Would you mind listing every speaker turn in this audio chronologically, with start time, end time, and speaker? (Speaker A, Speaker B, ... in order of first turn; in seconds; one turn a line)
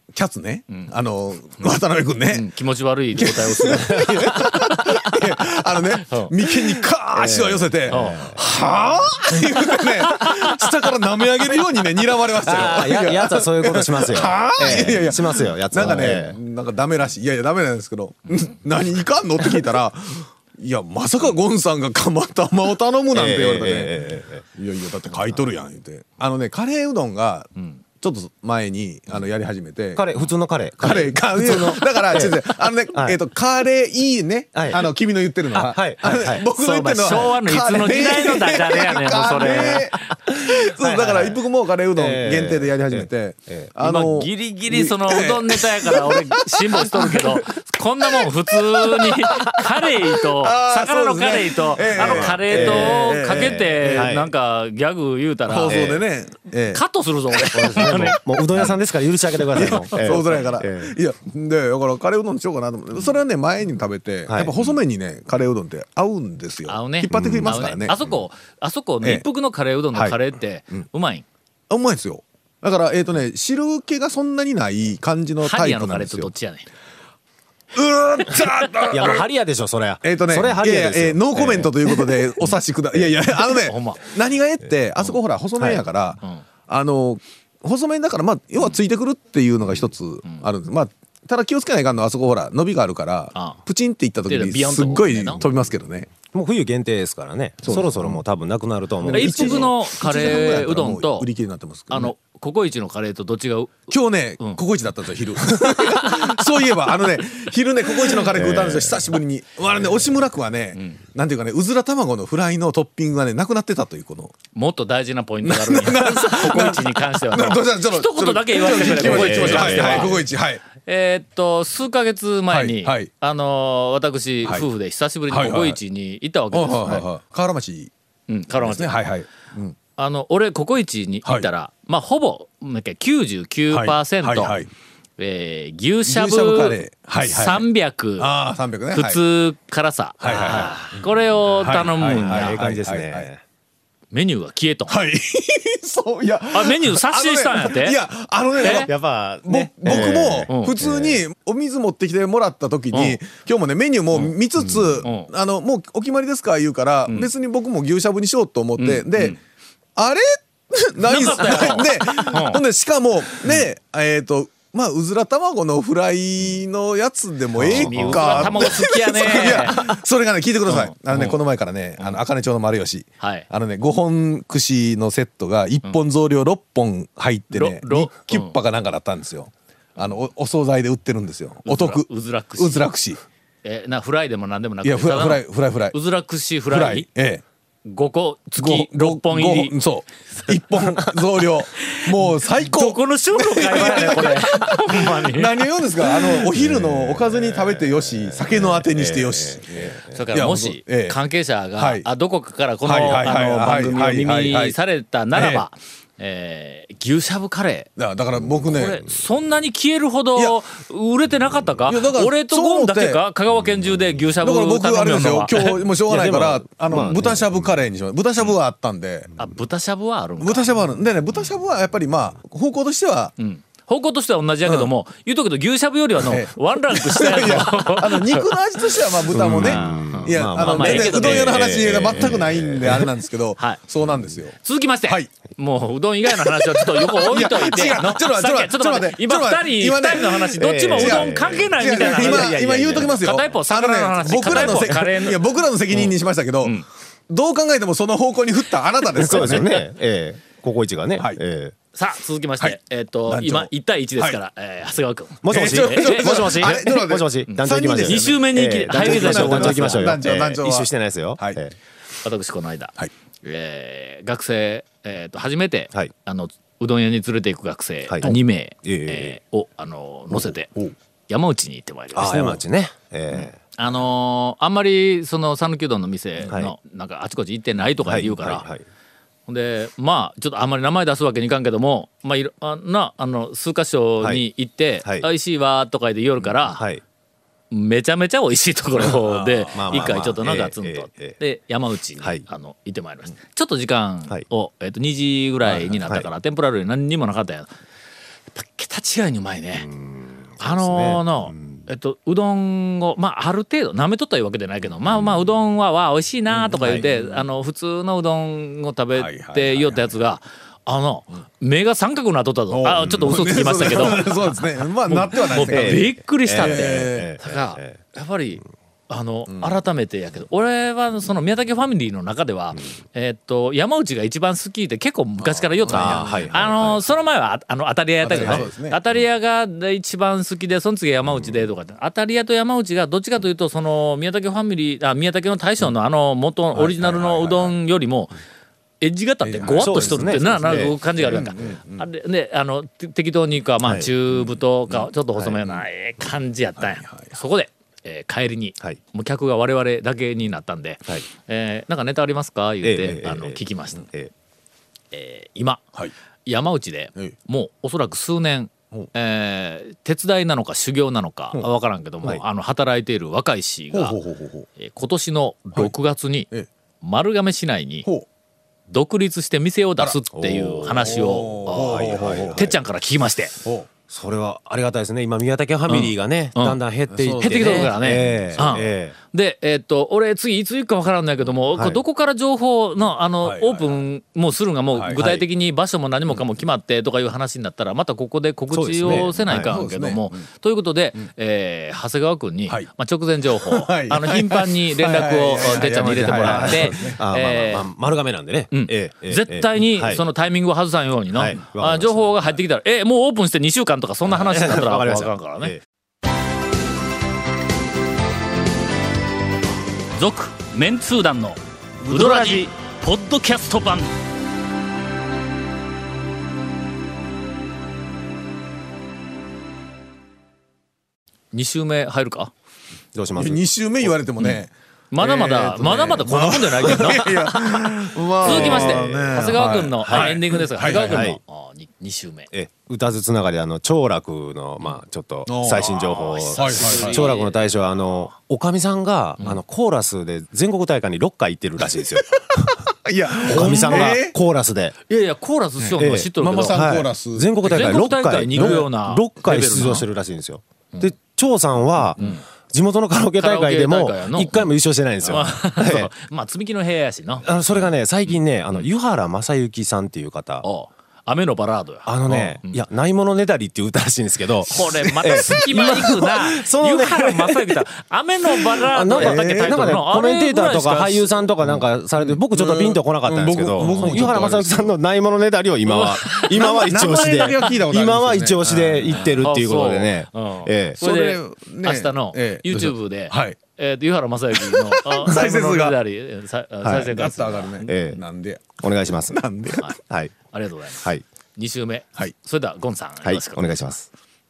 Speaker A: 0.1-2.5
Speaker B: 2.3-4.2
Speaker A: 3.1-24.0
Speaker C: 3.7-5.3
Speaker C: 7.1-9.1
Speaker B: 7.9-8.4
Speaker C: 12.4-16.4
Speaker B: 18.3-18.6
Speaker C: 23.1-24.4
Speaker A: 24.5-30.1
Speaker C: 29.9-33.2
Speaker A: 30.8-47.2
Speaker C: 34.5-34.8
Speaker C: 35.5-37.3
Speaker B: 37.0-40.0
Speaker C: 40.5-41.4
Speaker C: 42.0-43.7
Speaker B: 43.8-55.9
Speaker A: 48.1-49.5
Speaker A: 50.0-54.1
Speaker C: 51.9-54.3
Speaker A: 55.5-56.8
Speaker C: 55.7-56.0
Speaker B: 56.7-58.8
Speaker C: 57.5-61.0
Speaker B: 59.5-60.4
Speaker A: 59.5-68.0
Speaker C: 64.3-64.5
Speaker B: 66.7-71.3
Speaker C: 67.1-68.2
Speaker A: 71.7-76.3
Speaker B: 75.4-76.7
Speaker A: 77.7-79.2
Speaker C: 78.9-82.2
Speaker A: 80.0-96.1
Speaker B: 83.6-84.1
Speaker B: 93.3-93.6
Speaker B: 94.3-95.4
Speaker C: 96.3-99.7
Speaker A: 97.6-98.2
Speaker A: 99.0-102.1
Speaker B: 99.1-101.3
Speaker C: 100.2-100.5
Speaker B: 101.9-104.6
Speaker A: 103.9-114.3
Speaker C: 108.2-109.0
Speaker B: 114.5-120.2
Speaker A: 115.4-120.6
Speaker C: 118.9-120.2
Speaker B: 120.8-127.1
Speaker A: 122.5-123.1
Speaker A: 125.3-125.8
Speaker A: 126.5-127.9
Speaker B: 128.3-129.0
Speaker A: 128.6-129.8
Speaker B: 130.0-134.6
Speaker A: 133.7-134.7
Speaker B: 135.2-138.3
Speaker A: 136.1-137.7
Speaker A: 138.2-139.2
Speaker B: 138.9-142.6
Speaker A: 140.2-143.3
Speaker C: 140.2-141.0
Speaker C: 142.2-143.4
Speaker B: 144.1-145.0
Speaker A: 144.9-148.9
Speaker B: 146.5-148.0
Speaker B: 148.6-148.9
Speaker C: 148.6-151.2
Speaker A: 149.5-159.4
Speaker B: 150.5-150.8
Speaker B: 152.9-153.2
Speaker C: 154.6-155.0
Speaker B: 155.0-155.3
Speaker B: 158.8-159.4
Speaker A: 160.0-183.2
Speaker B: 161.0-162.6
Speaker C: 167.6-168.9
Speaker B: 167.7-169.9
Speaker B: 170.7-171.4
Speaker B: 173.2-173.5
Speaker B: 177.5-178.6
Speaker B: 181.7-182.9
Speaker B: 183.6-187.1
Speaker A: 184.8-186.0
Speaker A: 186.7-187.4
Speaker B: 187.8-189.8
Speaker A: 188.6-201.2
Speaker B: 191.8-195.7
Speaker C: 196.5-200.2
Speaker B: 200.1-207.9
Speaker A: 201.8-202.1
Speaker A: 202.8-204.8
Speaker A: 205.3-205.6
Speaker A: 208.0-209.1
Speaker B: 208.7-215.8
Speaker A: 211.9-213.2
Speaker A: 214.4-219.3
Speaker C: 216.1-217.6
Speaker B: 219.4-220.8
Speaker A: 220.4-223.3
Speaker B: 223.4-228.4
Speaker A: 224.7-224.9
Speaker A: 226.2-234.6
Speaker C: 229.3-233.1
Speaker B: 229.5-231.6
Speaker B: 233.6-233.8
Speaker B: 234.6-246.8
Speaker A: 236.3-249.9
Speaker C: 240.6-243.2
Speaker C: 244.4-244.9
Speaker C: 249.1-251.8
Speaker A: 251.2-251.4
Speaker B: 251.9-256.6
Speaker A: 252.6-254.4
Speaker C: 255.4-261.8
Speaker A: 255.5-261.6
Speaker B: 257.5-260.2
Speaker B: 262.2-270.7
Speaker C: 268.1-269.4
Speaker B: 271.3-272.6
Speaker C: 272.1-273.6
Speaker B: 273.3-278.7
Speaker C: 276.4-276.8
Speaker C: 278.0-278.8
Speaker B: 279.5-286.8
Speaker C: 286.4-287.0
Speaker B: 287.7-297.7
Speaker A: 289.0-290.2
Speaker C: 289.7-291.4
Speaker C: 295.7-296.3
Speaker B: 298.5-299.9
Speaker C: 299.8-301.9
Speaker B: 300.6-314.6
Speaker A: 306.5-307.4
Speaker C: 306.7-307.1
Speaker A: 309.1-310.1
Speaker A: 312.7-317.3
Speaker C: 313.0-314.2
Speaker B: 315.1-338.4
Speaker C: 315.7-318.0
Speaker A: 319.5-319.8
Speaker A: 325.4-326.6
Speaker C: 325.9-327.2
Speaker A: 328.2-329.0
Speaker C: 328.3-328.7
Speaker A: 336.7-337.8
Speaker B: 339.0-354.1
Speaker A: 339.4-342.1
Speaker C: 339.7-341.5
Speaker C: 343.8-344.1
Speaker A: 344.9-345.8
Speaker A: 346.8-347.4
Speaker C: 352.8-354.3
Speaker B: 355.1-355.8
Speaker B: 356.5-364.2
Speaker A: 363.9-364.7
Speaker B: 364.8-366.5
Speaker B: 367.0-368.1
Speaker B: 368.9-373.6
Speaker C: 370.3-372.8
Speaker A: 370.9-372.7
Speaker C: 374.1-379.2
Speaker B: 375.9-376.8
Speaker A: 377.1-378.9
Speaker B: 377.4-397.9
Speaker C: 381.7-382.0
Speaker A: 383.4-384.0
Speaker A: 384.9-385.2
Speaker C: 385.1-385.4
Speaker C: 388.7-389.7
Speaker A: 389.1-390.5
Speaker A: 393.5-397.2
Speaker C: 395.6-400.2
Speaker B: 398.7-405.8
Speaker C: 401.3-402.5
Speaker C: 404.3-405.8
Speaker B: 410.1-414.1
Speaker C: 412.0-412.7
Speaker B: 421.5-422.5
Speaker C: 423.1-424.1
Speaker A: 423.4-431.3
Speaker B: 425.1-427.4
Speaker C: 427.6-431.4
Speaker B: 428.4-432.5
Speaker C: 432.5-442.8
Speaker A: 435.5-437.3
Speaker B: 435.8-438.1
Speaker A: 442.6-444.4
Speaker C: 443.4-444.9
Speaker B: 443.5-444.2
Speaker B: 445.1-446.8
Speaker A: 445.8-448.9
Speaker C: 446.0-456.1
Speaker B: 447.6-450.1
Speaker B: 453.4-454.7
Speaker B: 455.2-457.5
Speaker C: 457.4-460.7
Speaker B: 458.3-458.9
Speaker B: 460.6-462.8
Speaker C: 462.1-467.8
Speaker A: 462.3-462.6
Speaker B: 464.6-471.4
Speaker A: 464.9-466.2
Speaker C: 468.5-481.0
Speaker A: 469.1-470.0
Speaker A: 471.6-475.0
Speaker B: 473.8-474.5
Speaker A: 475.9-479.5
Speaker B: 476.3-476.7
Speaker B: 479.1-487.8
Speaker A: 481.0-483.6
Speaker A: 484.6-486.0
Speaker C: 486.8-487.2
Speaker A: 487.0-489.9
Speaker C: 487.8-488.2
Speaker C: 488.8-489.4
Speaker C: 490.0-490.3
Speaker B: 490.5-493.8
Speaker C: 493.2-494.1